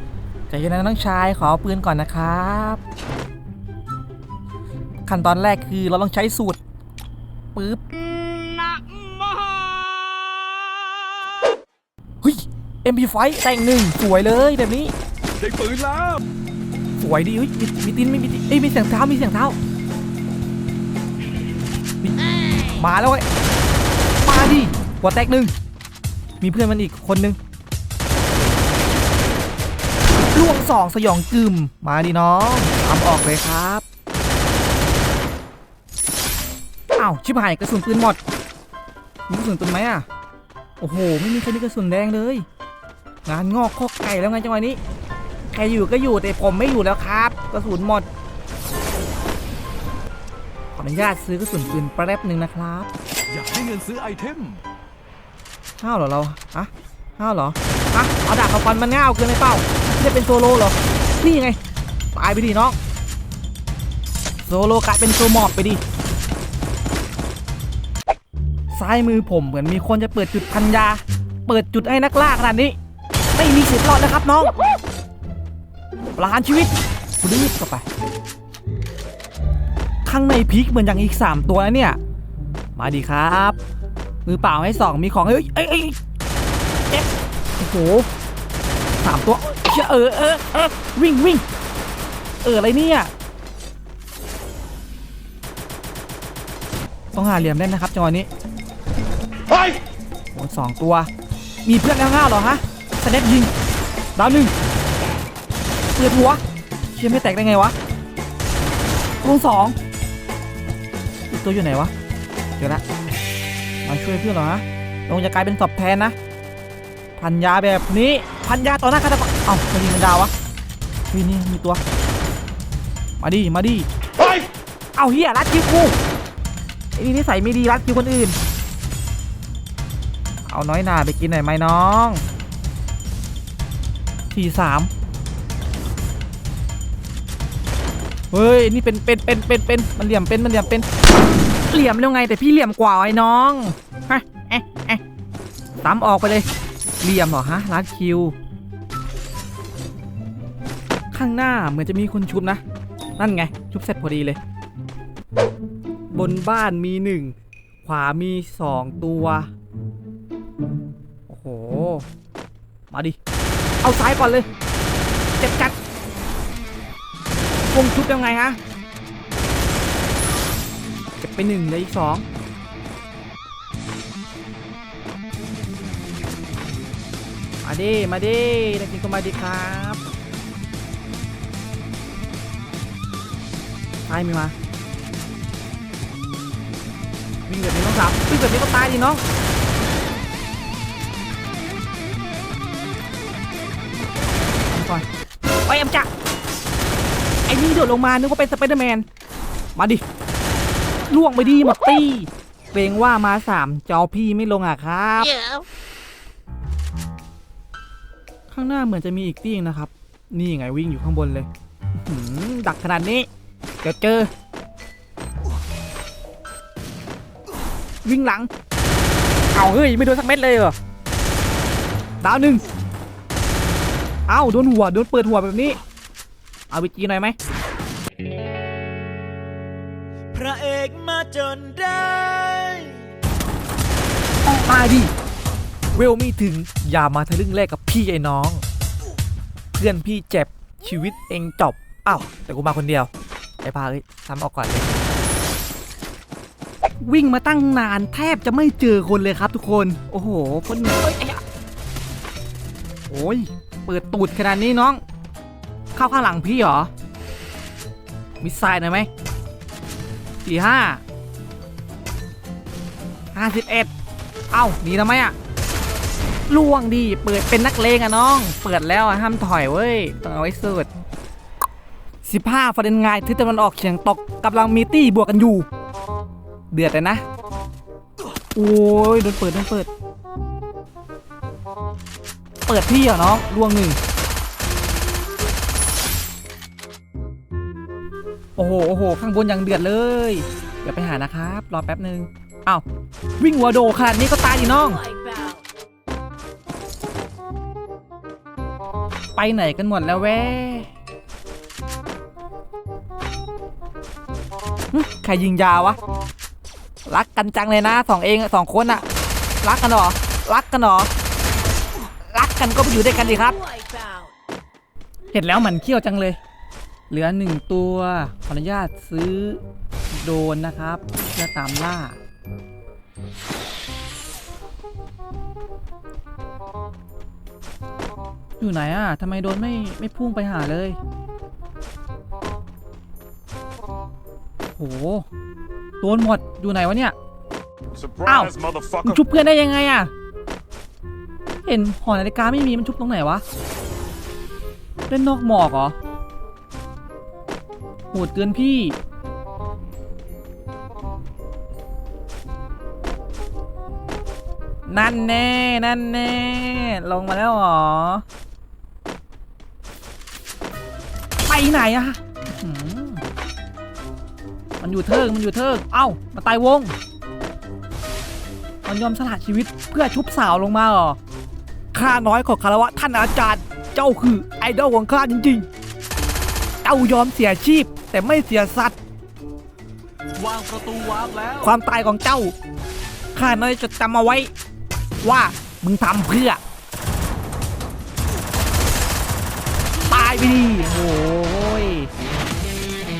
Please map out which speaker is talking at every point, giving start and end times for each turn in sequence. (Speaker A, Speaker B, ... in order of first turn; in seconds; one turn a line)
Speaker A: 0.5-2.8
Speaker A: 5.0-6.6
Speaker A: 7.5-7.8
Speaker B: 8.7-9.9
Speaker A: 12.2-14.9
Speaker B: 15.4-16.2
Speaker A: 17.0-19.6
Speaker A: 22.0-23.2
Speaker A: 24.2-25.5
Speaker A: 26.4-27.4
Speaker A: 30.3-33.8
Speaker A: 37.0-38.2
Speaker A: 39.3-40.0
Speaker A: 40.8-42.5
Speaker A: 43.2-44.8
Speaker A: 45.5-48.1
Speaker A: 50.8-52.9
Speaker B: 53.3-54.6
Speaker A: 55.8-61.6
Speaker A: 62.1-62.8
Speaker A: 64.5-65.8
Speaker A: 68.7-72.8
Speaker A: 73.3-74.5
Speaker A: 76.2-77.8
Speaker A: 80.0-82.0
Speaker A: 82.8-83.6
Speaker A: 84.2-86.0
Speaker A: 87.6-88.1
Speaker A: 89.0-91.4
Speaker A: 92.4-93.1
Speaker A: 97.1-98.3
Speaker A: 100.3-101.1
Speaker A: 101.6-103.5
Speaker A: 104.2-104.5
Speaker A: 105.9-106.4
Speaker A: 106.9-107.7
Speaker A: 109.2-109.8
Speaker A: 111.3-111.9
Speaker A: 112.6-112.8
Speaker A: 113.8-116.1
Speaker A: 117.2-120.3
Speaker A: 121.1-121.8
Speaker A: 123.2-123.9
Speaker A: 124.9-126.0
Speaker A: 126.9-128.3
Speaker A: 130.5-132.2
Speaker A: 134.3-134.9
Speaker A: 138.3-140.8
Speaker A: 141.7-145.0
Speaker A: 145.8-146.5
Speaker A: 147.0-148.3
Speaker A: 151.1-152.6
Speaker A: 153.2-154.4
Speaker A: 156.1-159.5
Speaker A: 161.3-162.1
Speaker A: 162.9-163.2
Speaker A: 163.8-164.5
Speaker A: 165.4-165.8
Speaker A: 167.7-168.6
Speaker A: 171.2-172.2
Speaker A: 177.6-180.0
Speaker A: 184.1-184.5
Speaker A: 187.5-189.2
Speaker A: 194.7-195.0
Speaker A: 195.7-196.1
Speaker A: 197.5-199.1
Speaker A: 199.8-200.0
Speaker A: 201.1-205.6
Speaker A: 208.5-213.3
Speaker A: 213.8-214.3
Speaker A: 218.0-218.5
Speaker A: 219.5-220.8
Speaker A: 222.2-222.6
Speaker A: 224.3-225.8
Speaker A: 226.7-227.3
Speaker C: 230.3-233.1
Speaker A: 234.5-235.1
Speaker A: 235.9-238.6
Speaker A: 239.8-243.1
Speaker A: 243.6-244.9
Speaker A: 247.0-251.4
Speaker A: 253.1-255.0
Speaker A: 255.9-256.9
Speaker A: 258.4-259.1
Speaker A: 260.4-261.0
Speaker A: 263.3-263.9
Speaker A: 264.5-265.3
Speaker A: 266.5-270.9
Speaker A: 272.2-275.7
Speaker A: 276.7-277.2
Speaker A: 278.5-279.9
Speaker A: 282.6-284.0
Speaker A: 288.6-292.8
Speaker A: 293.4-295.1
Speaker C: 295.2-295.6
Speaker A: 299.3-300.9
Speaker A: 304.9-306.0
Speaker A: 307.1-309.1
Speaker A: 309.6-311.1
Speaker A: 312.3-313.7
Speaker C: 313.9-314.2
Speaker A: 315.3-316.4
Speaker A: 317.1-322.2
Speaker A: 328.6-331.0
Speaker A: 334.6-335.2
Speaker A: 336.0-337.1
Speaker B: 337.9-339.1
Speaker A: 338.2-340.1
Speaker A: 341.6-343.4
Speaker A: 345.1-345.9
Speaker A: 348.1-349.0
Speaker A: 354.9-358.2
Speaker A: 361.4-363.2
Speaker A: 364.8-366.9
Speaker A: 368.8-371.2
Speaker A: 371.9-375.7
Speaker A: 376.8-379.0
Speaker B: 380.4-381.7
Speaker A: 381.6-382.5
Speaker A: 383.3-384.5
Speaker A: 385.2-386.6
Speaker A: 390.1-392.1